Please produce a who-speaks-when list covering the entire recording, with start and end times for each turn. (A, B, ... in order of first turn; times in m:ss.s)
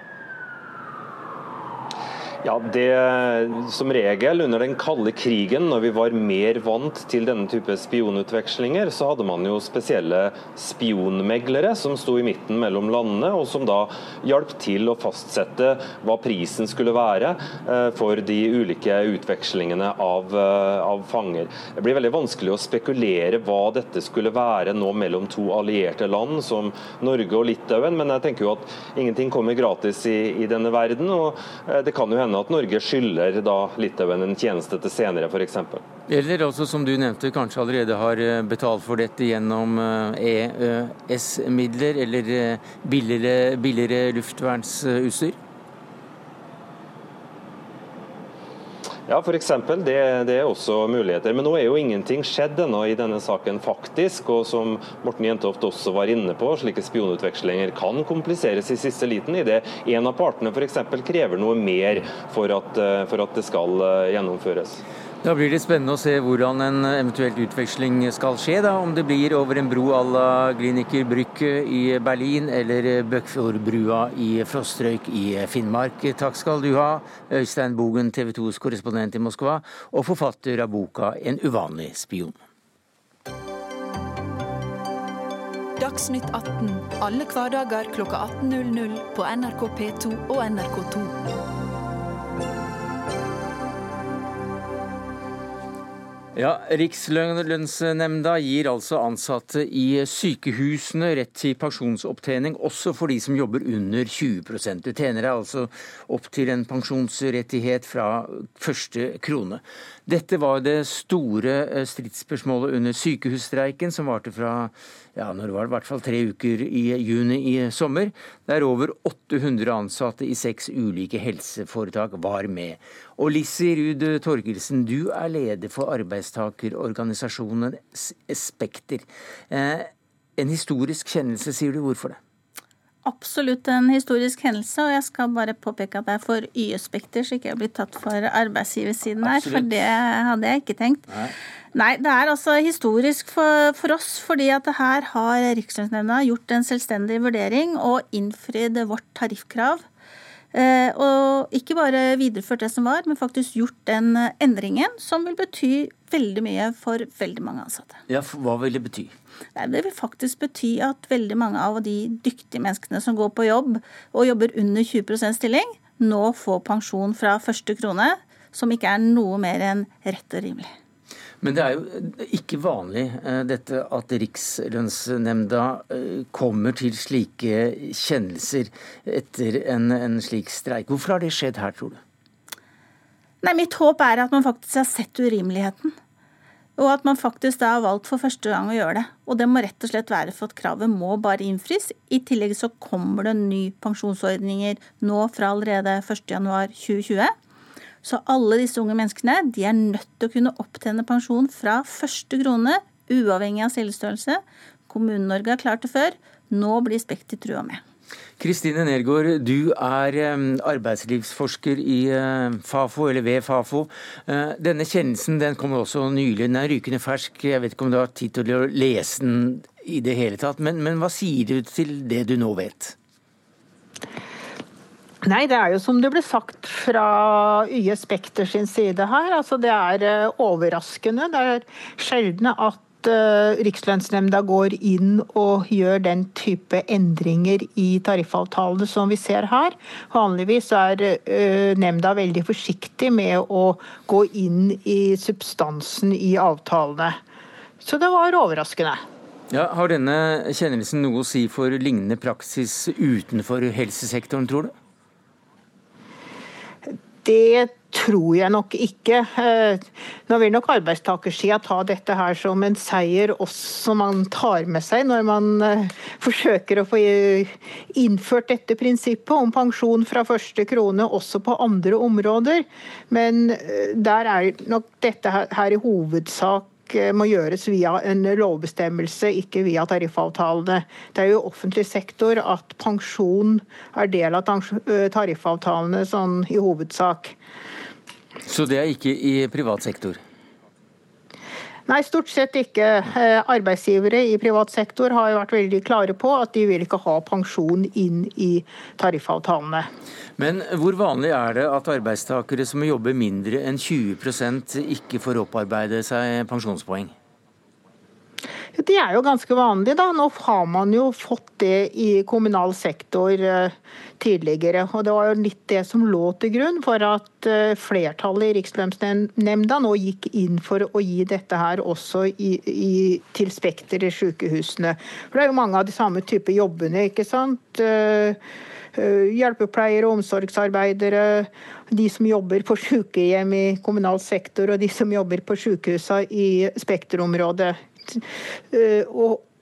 0:02.4-0:35.8 A
0:36.1-0:45.4 B
0:49.1-1:04.8 A
1:05.2-1:22.4 B
1:25.8-1:31.2 C
1:36.4-2:12.2 B
2:13.0-2:21.1 D
2:19.2-2:19.7 B
2:21.7-2:29.8 D
2:30.5-2:38.0 D
2:38.1-2:39.1 B
2:39.6-2:50.7 D
2:51.4-3:02.0 B
3:03.4-3:05.9 D
3:06.8-3:17.3 D
3:18.0-3:27.8 D
3:28.4-3:43.0 B
3:45.2-4:07.2 E
4:07.8-4:09.0 E
4:09.5-4:14.7 B
4:17.2-4:47.4 E
4:48.5-4:50.2 B
4:51.9-4:59.9 E
5:00.4-5:07.2 B
5:08.8-5:28.4 E
5:29.0-5:39.4 E